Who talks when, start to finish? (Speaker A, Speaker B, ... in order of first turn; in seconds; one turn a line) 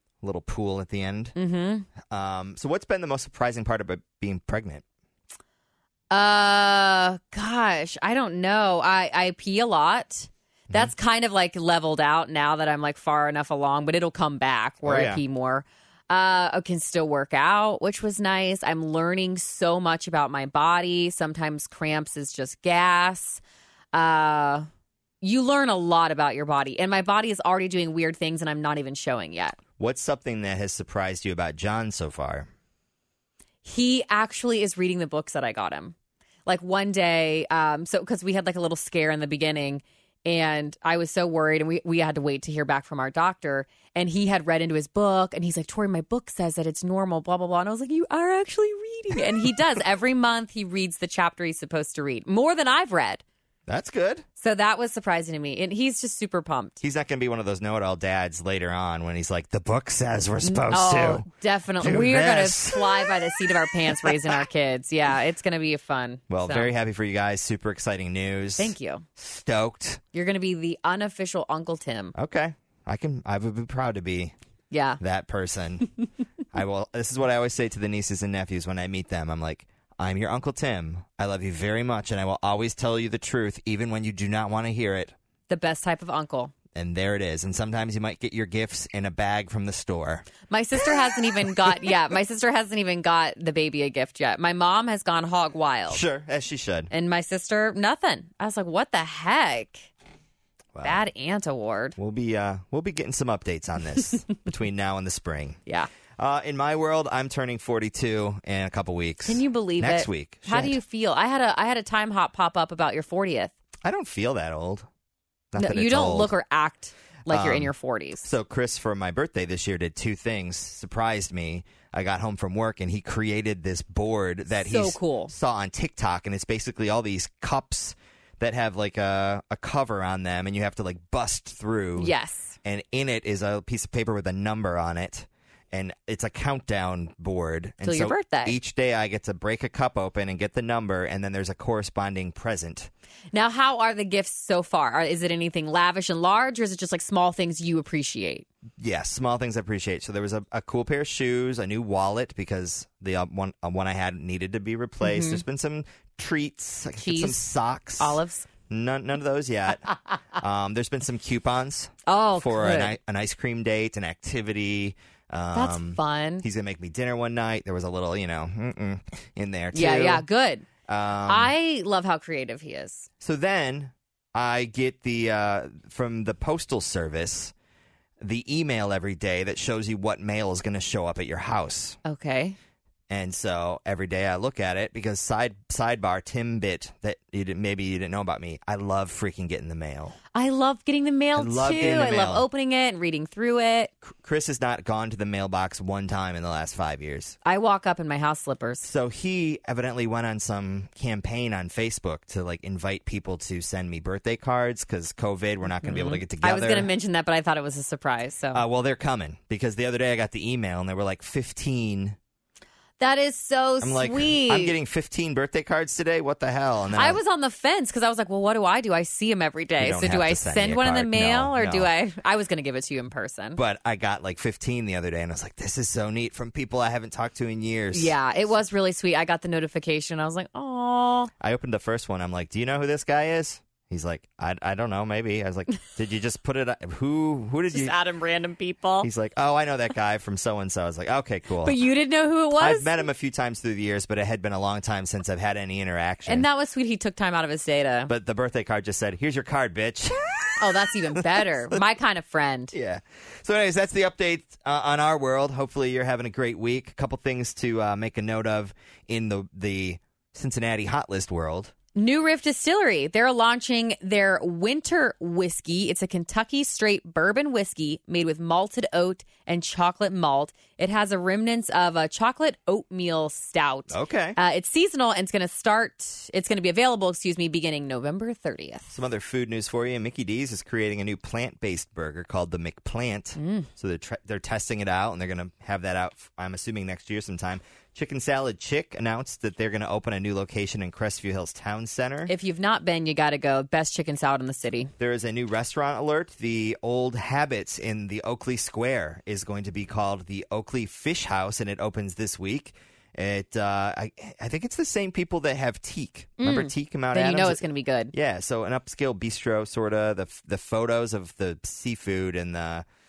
Speaker A: 0.2-1.3
Speaker B: 1.4-1.9
Speaker A: 2.1-4.8
Speaker B: 6.1-23.4
Speaker A: 14.8-15.2
Speaker B: 23.9-24.6
Speaker B: 25.2-29.6
Speaker A: 29.8-32.5
Speaker B: 33.6-35.9
Speaker B: 36.5-53.2
Speaker A: 53.7-54.2
Speaker B: 54.4-56.8
Speaker A: 56.8-61.3
Speaker B: 60.4-66.7
Speaker A: 61.8-64.3
Speaker A: 66.3-70.0
Speaker B: 68.6-69.0
Speaker B: 70.1-72.1
Speaker A: 72.1-74.3
Speaker B: 74.7-75.0
Speaker A: 75.0-75.9
Speaker A: 76.5-85.1
Speaker B: 85.5-86.5
Speaker A: 86.7-90.3
Speaker B: 90.5-96.0
Speaker A: 95.9-96.9
Speaker B: 96.9-99.9
Speaker A: 100.7-101.0
Speaker B: 100.8-102.0
Speaker A: 102.0-105.6
Speaker A: 106.2-110.8
Speaker B: 109.2-113.5
Speaker A: 113.8-114.8
Speaker A: 115.5-116.3
Speaker B: 115.6-118.3
Speaker A: 117.3-132.1
Speaker B: 124.6-125.3
Speaker B: 132.0-132.6
Speaker A: 132.6-142.9
Speaker B: 137.8-138.6
Speaker B: 143.3-148.4
Speaker A: 148.8-158.2
Speaker B: 155.0-155.4
Speaker B: 157.0-157.4
Speaker B: 158.0-158.5
Speaker A: 158.7-170.2
Speaker B: 162.1-162.9
Speaker B: 165.5-166.4
Speaker B: 169.7-170.7
Speaker A: 170.9-171.5
Speaker B: 171.2-173.1
Speaker A: 173.2-177.5
Speaker A: 178.2-182.0
Speaker B: 182.0-182.6
Speaker A: 183.1-190.2
Speaker B: 190.3-193.9
Speaker A: 191.3-192.4
Speaker A: 194.0-197.4
Speaker B: 197.4-198.9
Speaker A: 198.8-206.9
Speaker B: 205.8-208.6
Speaker A: 208.5-212.2
Speaker B: 213.0-214.8
Speaker A: 213.8-217.2
Speaker B: 216.9-223.6
Speaker A: 219.8-221.9
Speaker A: 223.6-228.2
Speaker B: 227.9-231.3
Speaker A: 231.4-237.9
Speaker B: 237.7-239.1
Speaker A: 239.0-241.8
Speaker B: 241.6-243.1
Speaker A: 242.6-246.4
Speaker B: 246.3-248.1
Speaker A: 248.1-251.8
Speaker B: 250.6-252.7
Speaker A: 252.7-261.7
Speaker B: 261.9-278.9
Speaker A: 273.9-274.4
Speaker A: 278.9-292.3
Speaker B: 283.4-283.7
Speaker B: 292.3-294.9
Speaker A: 295.0-307.6
Speaker B: 306.4-308.1
Speaker A: 308.1-312.8